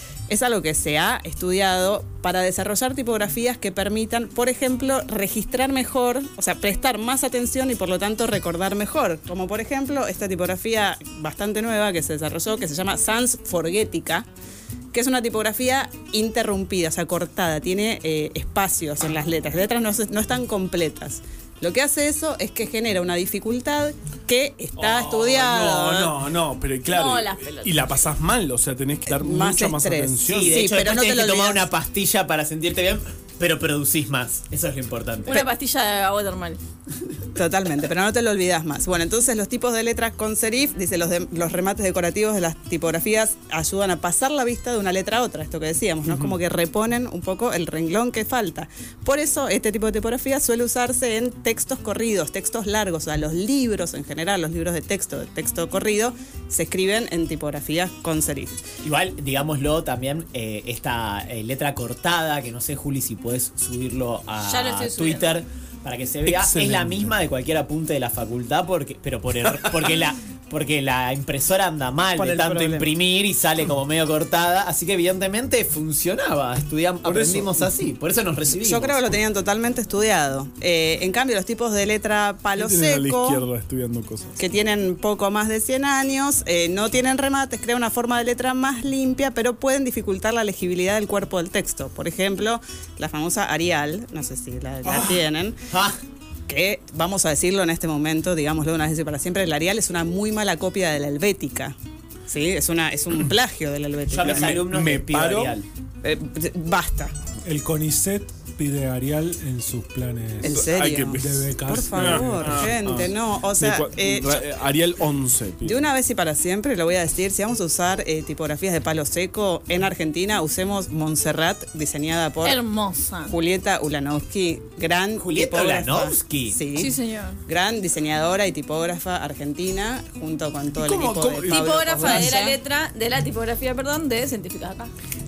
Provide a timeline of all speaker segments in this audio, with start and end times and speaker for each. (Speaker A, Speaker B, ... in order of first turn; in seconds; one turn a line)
Speaker A: 0.3-14.3
Speaker A: 14.9-26.1
Speaker B: 24.8-30.7
Speaker C: 26.9-28.0
Speaker A: 29.1-31.7
Speaker D: 30.3-35.5
Speaker C: 35.3-36.6
Speaker A: 37.4-58.6
Speaker B: 46.1-46.4
Speaker D: 58.8-79.0
Speaker C: 64.5-65.4
Speaker B: 66.3-67.1
Speaker A: 72.2-72.9
Speaker B: 77.0-77.7
Speaker A: 78.5-83.4
Speaker B: 82.5-84.4
Speaker A: 84.4-95.6
Speaker D: 94.9-95.1
Speaker D: 95.7-96.0
Speaker A: 96.5-101.8
Speaker A: 102.3-104.7
Speaker D: 104.1-105.7
Speaker B: 104.2-105.6
Speaker A: 106.0-107.2
Speaker E: 107.4-112.7
Speaker A: 110.4-114.5
Speaker B: 110.4-115.9
Speaker A: 115.6-122.6
Speaker C: 122.4-123.3
Speaker A: 123.3-126.9
Speaker D: 125.2-126.6
Speaker C: 126.8-127.4
Speaker A: 127.5-132.6
Speaker B: 130.8-132.4
Speaker C: 131.5-134.9